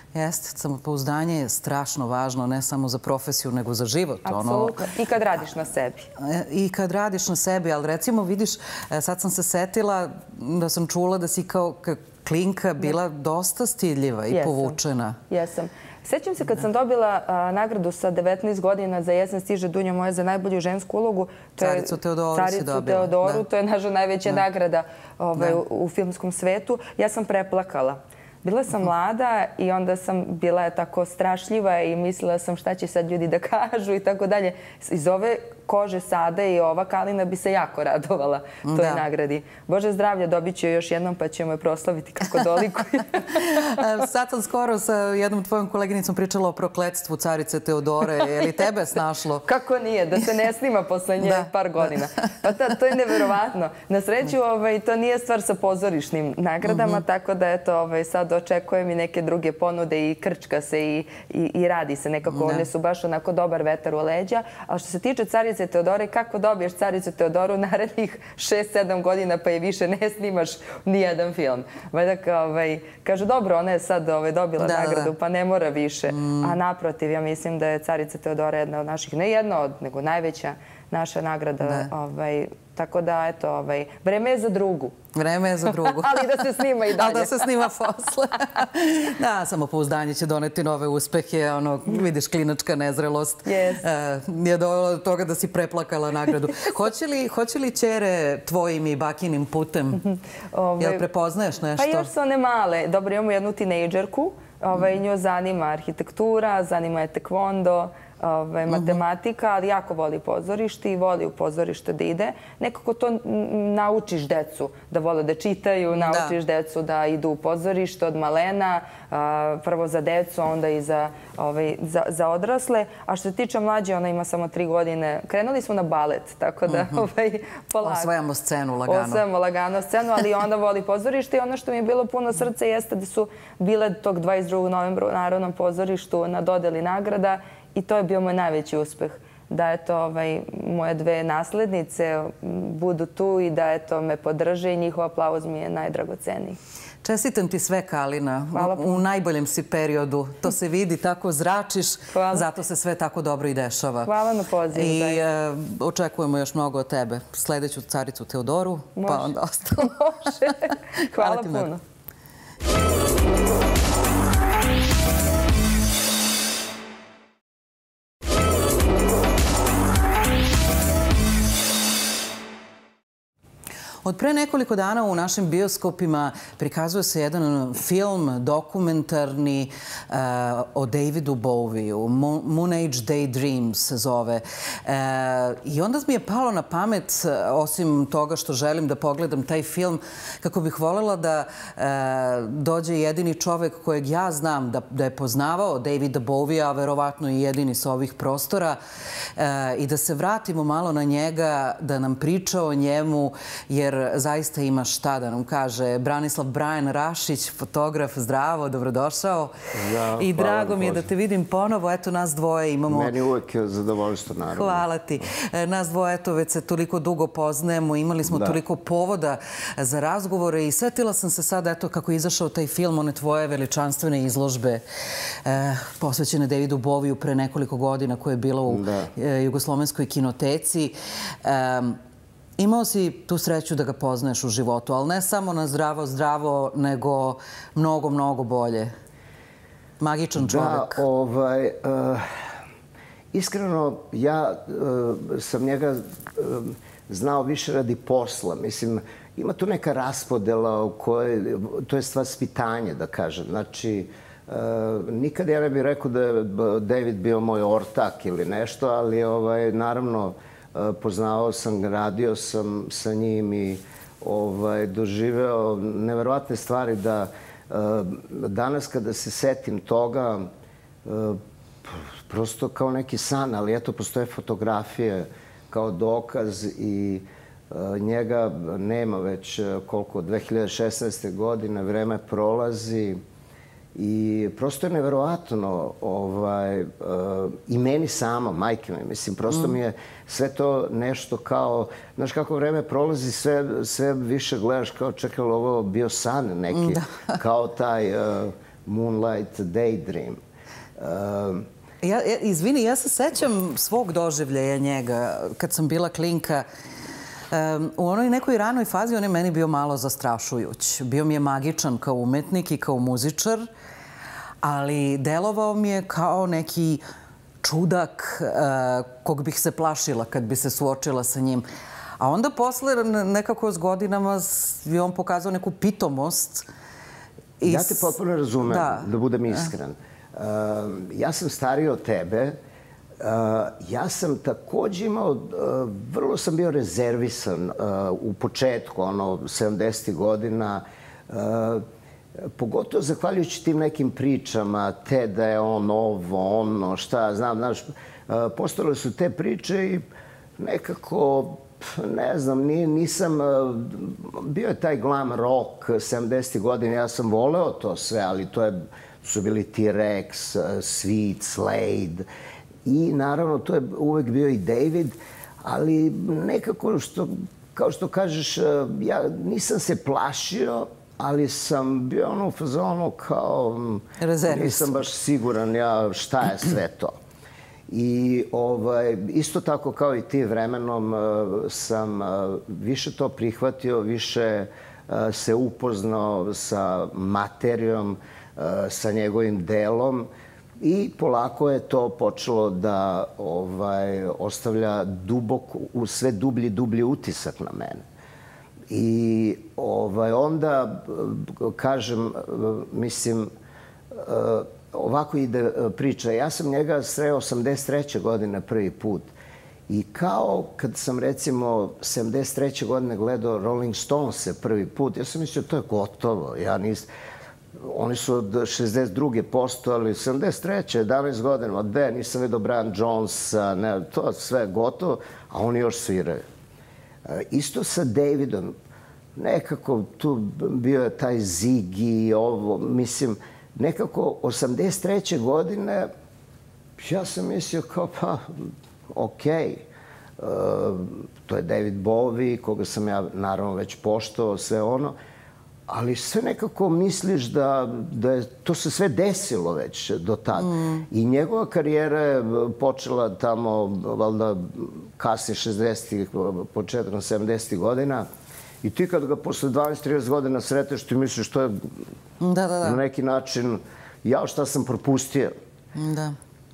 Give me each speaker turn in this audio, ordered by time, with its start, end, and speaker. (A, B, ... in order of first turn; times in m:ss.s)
0:00.1-0:04.8 A
0:04.2-0:06.1 B
0:06.2-0:15.2 A
0:14.3-0:14.8 B
0:15.3-0:43.8 B
0:21.6-0:23.4 A
0:38.6-0:39.0 A
0:43.3-0:49.4 A
0:49.4-1:25.0 B
0:51.2-0:51.9 A
0:56.6-0:57.0 A
1:02.3-1:02.7 A
1:14.6-1:15.1 A
1:16.1-1:16.5 A
1:21.6-1:21.9 A
1:25.1-1:40.0 A
1:25.7-1:27.7 B
1:33.4-1:33.8 B
1:40.0-1:41.0 B
1:40.8-1:42.1 A
1:41.8-2:08.1 B
1:48.7-1:49.0 A
1:56.0-1:56.3 A
2:06.7-2:07.0 A
2:07.8-2:09.2 A
2:08.9-2:26.6 B
2:27.0-2:34.1 A
2:28.5-2:28.9 B
2:32.1-2:32.4 B
2:34.0-2:35.2 B
2:34.7-2:41.7 A
2:39.0-2:41.8 B
2:54.0-3:18.8 A
3:19.4-3:29.5 A
3:29.7-3:31.1 C
3:30.2-3:33.1 A
3:32.9-3:34.8 C
3:34.5-3:44.8 A
3:38.2-3:38.6 C
3:45.4-3:52.0 A
3:48.7-3:49.1 C
3:52.6-3:58.9 A
4:00.0-4:01.0 A
4:00.4-4:02.3 C
4:03.3-4:30.5 C
4:31.0-4:43.2 C
4:43.9-5:00.4 C
4:56.7-4:57.3 A
5:01.0-5:01.6 C
5:02.0-5:06.6 A
5:07.5-5:13.7 A
5:14.6-5:17.0 A
5:17.6-5:21.6 A
5:22.2-5:26.6 A
5:27.6-5:28.1 A
5:27.6-5:32.6 C
5:28.6-5:29.7 A
5:33.2-5:41.8 C
5:42.4-5:50.0 C
5:50.6-6:02.2 C
6:02.8-6:17.1 C
6:14.2-6:14.9 A
6:17.9-6:30.3 C
6:30.8-6:38.0 C
6:38.9-6:43.5 C
6:44.1-6:49.3 C
6:49.9-6:57.1 C
6:57.8-7:06.4 C
7:07.2-7:08.7 C
7:09.4-7:16.1 C
7:17.0-7:19.8 C
7:20.4-7:25.2 C
7:25.9-7:38.3 C
7:30.6-7:31.1 A
7:38.8-7:41.9 C
7:42.4-7:43.0 A
7:42.8-7:45.5 C
7:45.9-7:46.3 A